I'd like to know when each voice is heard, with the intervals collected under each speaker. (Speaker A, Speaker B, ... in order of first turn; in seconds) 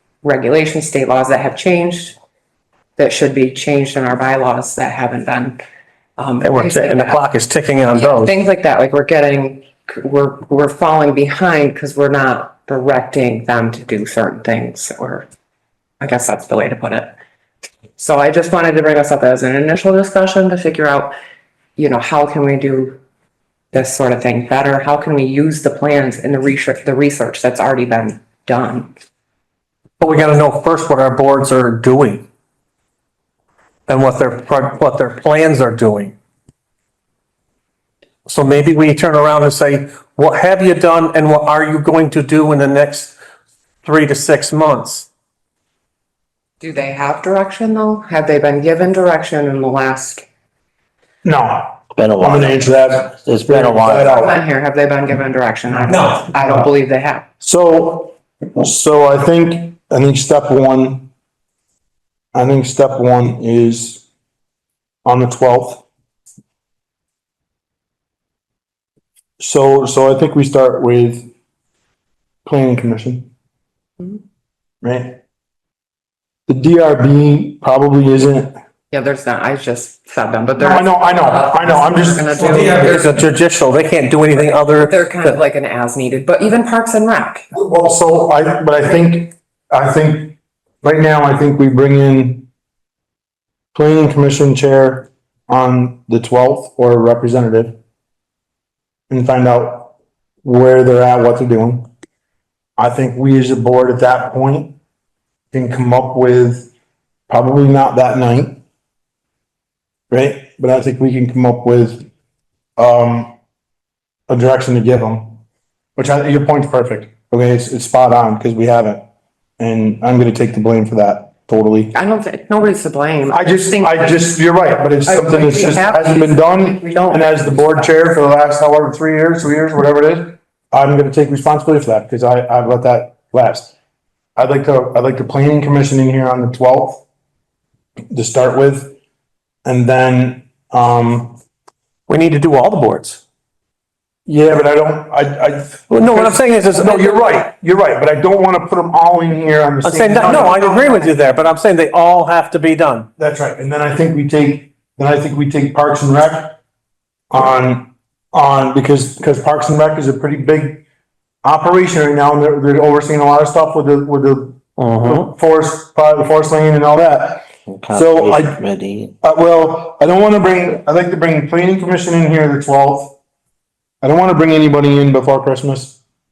Speaker A: 0.2-2.2, 3.0-5.6, 6.2-7.2, 7.9-15.3, 16.0-17.2, 18.0-21.1, 21.8-23.0, 23.7-28.9, 46.6-50.3, 54.1-57.3, 78.9-83.2, 84.4-87.5, 121.9-124.4, 125.0-127.9, 150.4-151.1
Speaker B: 6.4-8.3, 30.0-32.2, 33.9-36.1, 38.3-43.2, 43.8-45.1, 55.9-56.2, 82.4-85.4, 142.1-143.2, 145.9-147.3, 149.8-153.1, 164.8-165.3
Speaker C: 51.2-54.3, 57.4-61.1, 62.3-64.0, 65.0-65.8, 69.4-71.3, 72.5-73.3, 74.8-75.2, 76.5-78.5, 80.6-83.1, 87.5-92.5, 93.7-97.8, 99.1-101.9, 102.8-104.8, 105.5-106.7, 107.3-108.6, 110.1-112.0, 112.8-113.3, 114.3-115.4, 116.0-119.0, 119.6-121.9, 123.3-133.7, 134.3-137.0, 138.1-139.0, 139.7-141.4, 144.2-150.7, 153.2-156.6, 157.3-160.8, 161.4-168.6, 169.2-173.2, 174.0-176.0
Speaker D: 52.0-54.3, 167.7-169.1